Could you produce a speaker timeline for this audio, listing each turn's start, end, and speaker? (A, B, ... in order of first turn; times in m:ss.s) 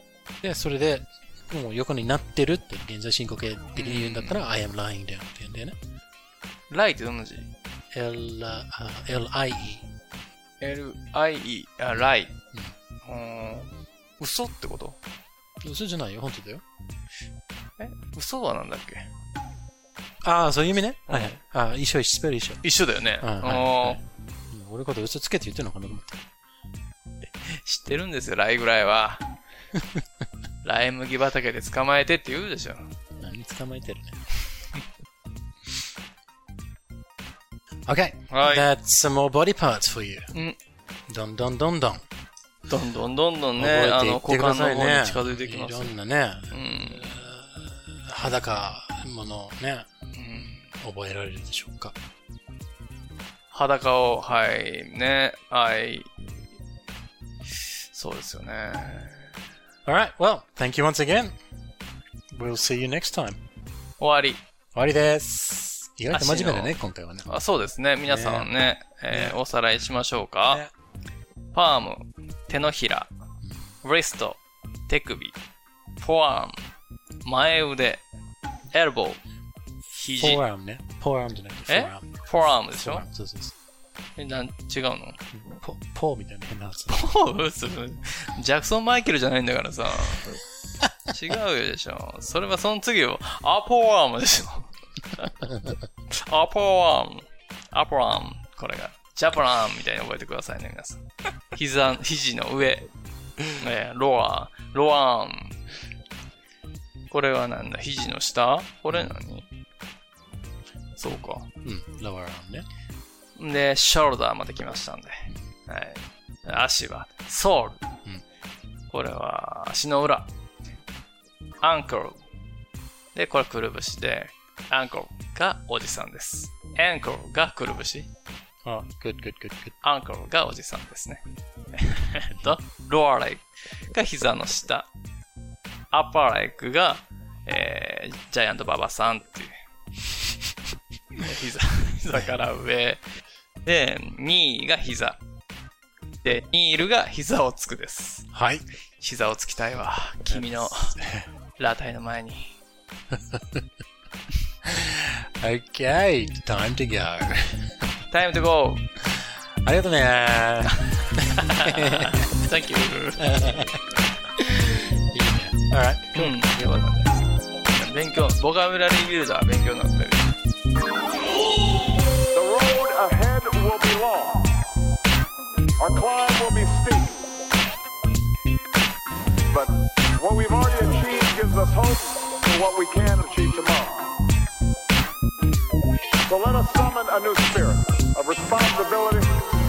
0:00.4-0:05.8 A
0:03.8-0:04.4 B
0:06.7-0:07.5 B
0:07.9-0:09.9 A
0:10.6-0:12.3 B
0:11.9-0:12.7 A
0:13.0-0:15.0 B
0:15.6-0:16.6 A
0:17.8-0:19.1 B
0:20.2-0:22.6 A
0:21.1-0:21.4 B
0:22.6-0:24.0 B
0:23.2-0:26.2 A
0:27.4-0:29.2 B
0:29.7-0:30.0 A
0:30.6-0:32.9 B
0:33.2-0:34.2 A
0:37.8-0:40.3 A
0:38.3-0:38.7 B
0:40.3-0:40.6 B
0:41.1-0:42.0 A
0:42.7-0:45.9 B
0:43.6-0:51.9 A
0:46.5-0:47.2 B
0:50.1-0:50.7 B
0:53.5-0:56.1 B
0:57.9-0:59.3 B
0:59.8-1:01.3 A
1:02.3-1:03.4 A
1:04.0-1:04.4 B
1:04.7-1:07.3 A
1:06.1-1:06.7 B
1:07.2-1:10.6 B
1:08.0-1:08.5 A
1:09.1-1:09.4 A
1:11.5-1:13.1 B
1:13.4-1:13.7 A
1:13.8-1:15.4 B
1:16.0-1:16.6 B
1:17.2-1:18.0 B
1:18.7-1:19.2 B
1:19.9-1:20.4 B
1:20.1-1:23.5 A
1:21.7-1:23.0 B
1:24.2-1:25.2 B
1:25.4-1:27.1 A
1:26.9-1:30.4 B
1:31.1-1:35.5 B
1:36.1-1:42.9 B
1:43.4-1:45.6 B
1:47.1-1:49.5 B
1:48.9-1:49.2 A
1:51.0-1:51.5 B
1:51.1-1:52.6 A
1:53.4-1:57.8 B
1:58.9-2:00.3 B
2:01.6-2:02.2 B
2:03.1-2:08.1 B
2:08.6-2:09.7 A
2:09.8-2:14.9 B
2:12.3-2:12.6 A
2:15.9-2:19.5 B
2:21.2-2:23.0 B
2:23.6-2:25.2 B
2:26.2-2:28.3 B
2:28.3-2:28.6 A
2:29.0-2:31.0 B
2:30.3-2:31.2 A
2:31.6-2:32.6 B
2:33.1-2:33.6 A
2:34.6-2:37.7 A
2:38.1-2:38.8 B
2:39.0-2:42.5 A
2:41.4-2:44.0 B
2:43.2-2:44.4 A
2:45.1-2:46.7 A
2:46.1-2:50.3 B
2:52.3-2:54.6 C
2:55.8-2:57.3 C
2:59.5-3:04.2 C
3:06.3-3:09.4 C